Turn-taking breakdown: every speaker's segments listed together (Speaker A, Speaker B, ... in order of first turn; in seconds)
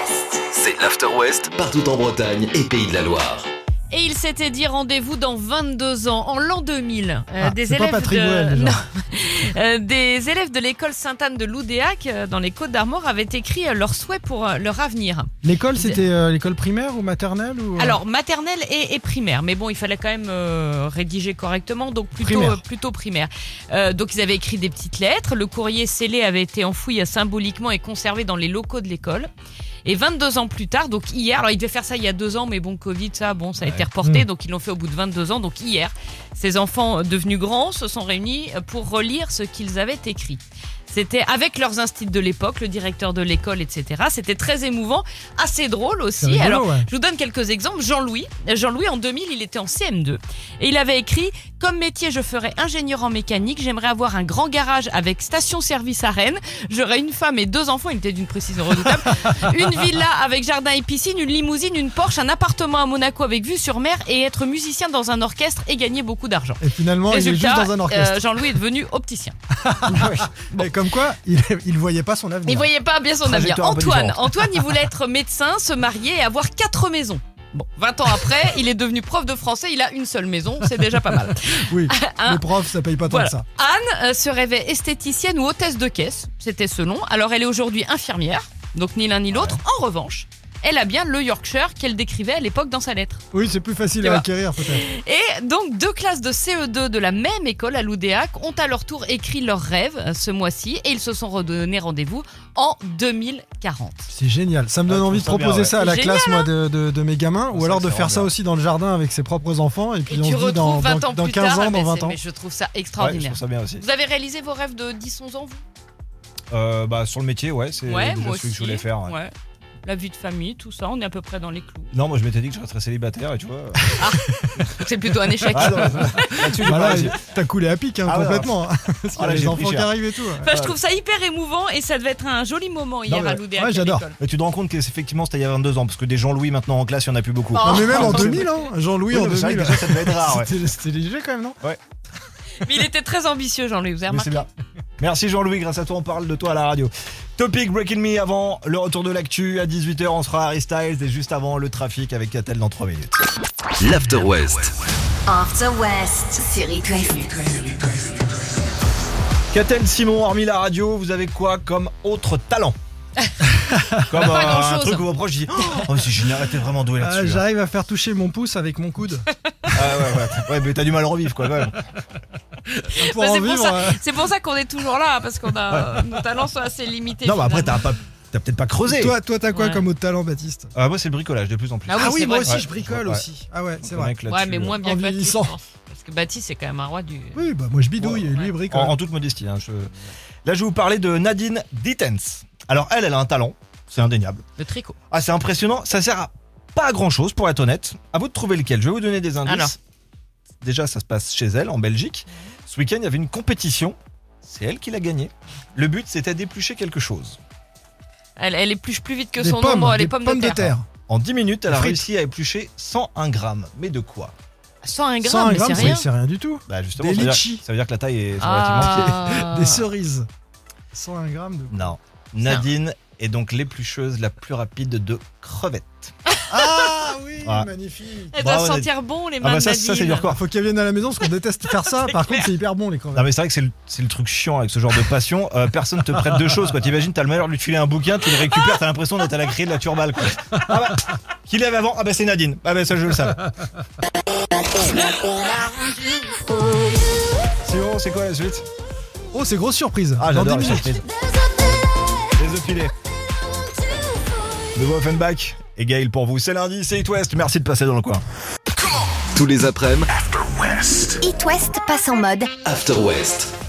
Speaker A: 0.3-3.5, 153.8-154.8, 259.4-261.1, 262.6-263.5
Speaker B: 3.9-16.0, 17.8-29.3, 29.9-69.4, 72.5-82.5, 83.1-93.2, 94.0-104.1, 105.8-106.5, 110.1-115.6, 117.9-119.3, 119.8-121.9, 124.0-126.5, 130.4-134.2, 137.6-138.5, 142.6-144.5, 164.1-165.1, 172.7-177.8, 179.5-179.9, 181.9-182.7, 184.3-187.4, 194.6-195.0, 199.4-199.7, 208.4-210.7, 214.8-216.1, 218.4-219.8, 228.3-230.3, 231.7-232.5
Speaker C: 7.4-8.8, 15.4-18.0, 22.2-22.6, 46.2-46.9, 66.6-68.6, 69.6-72.7, 81.6-83.5, 93.3-94.8, 104.1-112.2, 123.9-124.4, 125.5-130.5, 133.1-134.1, 137.6-141.6, 163.6-164.0, 167.0-169.2, 172.9-174.0, 178.9-180.7, 182.0-184.2, 184.8-185.6, 187.3-189.0, 209.4-210.9, 211.7-212.1, 215.2-217.7, 218.8-220.3, 220.9-222.0, 226.5-228.4, 230.3-233.3, 249.3-250.9
Speaker D: 33.6-33.9, 69.9-70.2, 73.2-74.7, 89.3-89.6, 104.9-105.8, 107.5-108.3, 113.0-113.8, 116.5-119.2, 121.9-124.0, 125.5-127.2, 128.1-128.6, 129.2-129.9, 130.5-130.8, 134.2-138.5, 139.1-140.5, 144.1-144.5, 145.0-153.2, 159.5-162.8, 164.1-167.4, 169.7-171.8, 175.7-176.0, 177.2-179.2, 180.8-183.2, 183.8-184.8, 188.0-189.9, 190.4-194.4, 195.1-199.8, 200.6-207.4, 210.6-214.3, 216.7-219.1, 221.7-226.1, 227.4-227.7, 228.4-230.4, 233.1-243.5, 247.6-248.7, 250.2-251.1, 252.4-252.9, 254.8-258.2
Speaker E: 155.3-157.7, 261.2-262.5